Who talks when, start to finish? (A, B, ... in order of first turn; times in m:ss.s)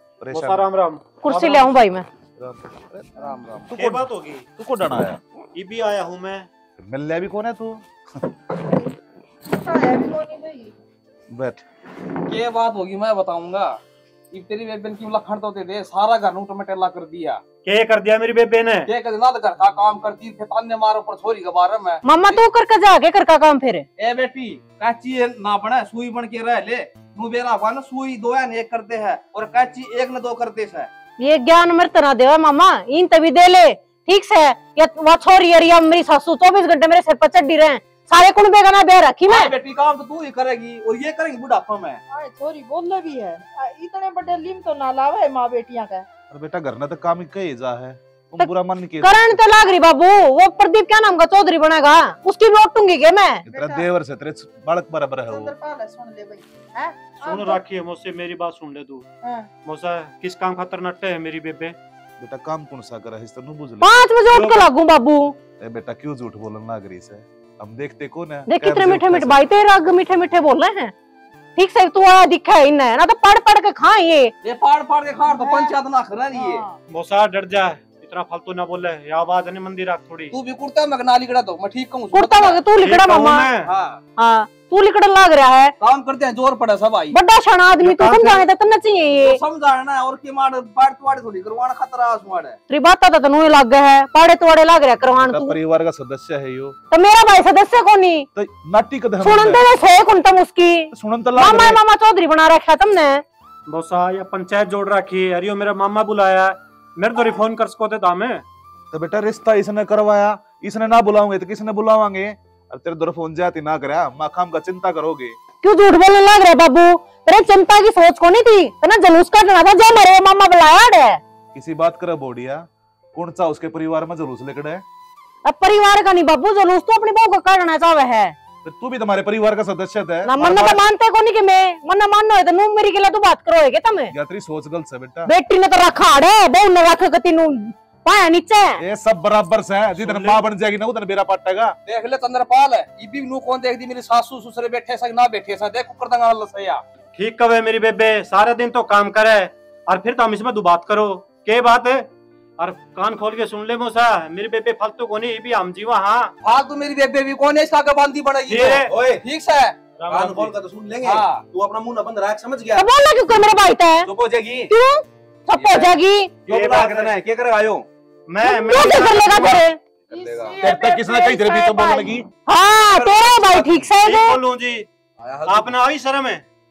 0:00.2-0:00.7 A
0:00.4-0:01.7 B
0:01.2-0:02.1 C
0:02.4-0:03.1 A
0:03.2-0:03.8 D
0:03.6-0:05.2 A
0:03.8-0:04.5 B
0:05.5-0:06.5 B
0:06.8-0:07.9 A
0:09.5-0:10.7 E
0:11.3-0:11.6 A
0:12.3-0:13.8 D
0:14.3-0:17.4 D
0:17.6-0:18.9 B
0:18.9-0:22.4 D
0:22.0-0:23.9 C
0:24.0-0:30.9 D
0:31.2-0:39.5 C
0:39.3-0:42.0 D
0:42.1-0:46.1 E
0:46.3-0:49.4 A
0:49.0-0:53.4 C
0:53.5-0:55.5 A
0:53.5-0:53.9 E
0:55.3-0:57.6 E
0:57.2-0:59.1 B
0:59.2-0:59.5 E
0:59.6-1:01.8 B
1:02.2-1:04.0 A
1:03.8-1:05.4 C
1:04.4-1:04.6 B
1:05.6-1:09.5 A
1:08.5-1:10.9 C
1:11.6-1:14.3 C
1:14.4-1:16.6 D
1:15.2-1:15.8 E
1:16.3-1:16.8 E
1:16.9-1:20.4 B
1:20.3-1:24.0 D
1:22.1-1:23.5 C
1:22.8-1:23.7 B
1:24.2-1:25.7 C
1:25.8-1:27.2 D
1:27.1-1:29.4 C
1:27.8-1:28.4 B
1:29.2-1:32.6 D
1:32.7-1:35.6 C
1:35.0-1:36.8 A
1:36.9-1:38.2 C
1:38.4-1:39.7 A
1:39.2-1:43.2 C
1:40.9-1:41.8 A
1:43.7-1:48.4 B
1:48.9-1:55.4 A
1:55.6-2:01.2 C
2:01.5-2:04.8 A
2:05.4-2:08.4 C
2:08.6-2:10.8 A
2:10.2-2:14.1 C
2:14.1-2:15.3 A
2:15.2-2:18.8 C
2:18.8-2:21.8 A
2:20.0-2:20.4 D
2:21.9-2:26.8 D
2:27.1-2:32.1 B
2:32.6-2:36.3 B
2:36.4-2:39.8 D
2:38.5-2:38.9 B
2:38.8-2:39.2 F
2:40.0-2:40.5 B
2:40.1-2:42.9 F
2:41.0-2:41.4 D
2:42.8-2:44.1 C
2:44.1-2:44.7 F
2:44.7-2:46.4 C
2:45.6-2:45.9 F
2:46.5-2:47.9 F
2:46.5-2:47.1 B
2:48.3-2:49.5 B
2:48.4-2:49.8 C
2:50.1-2:52.1 E
2:50.1-2:50.6 D
2:50.6-2:52.3 A
2:52.5-2:54.4 C
2:53.0-2:53.7 F
2:54.0-2:54.9 B
2:55.2-2:55.7 D
2:55.4-2:56.4 B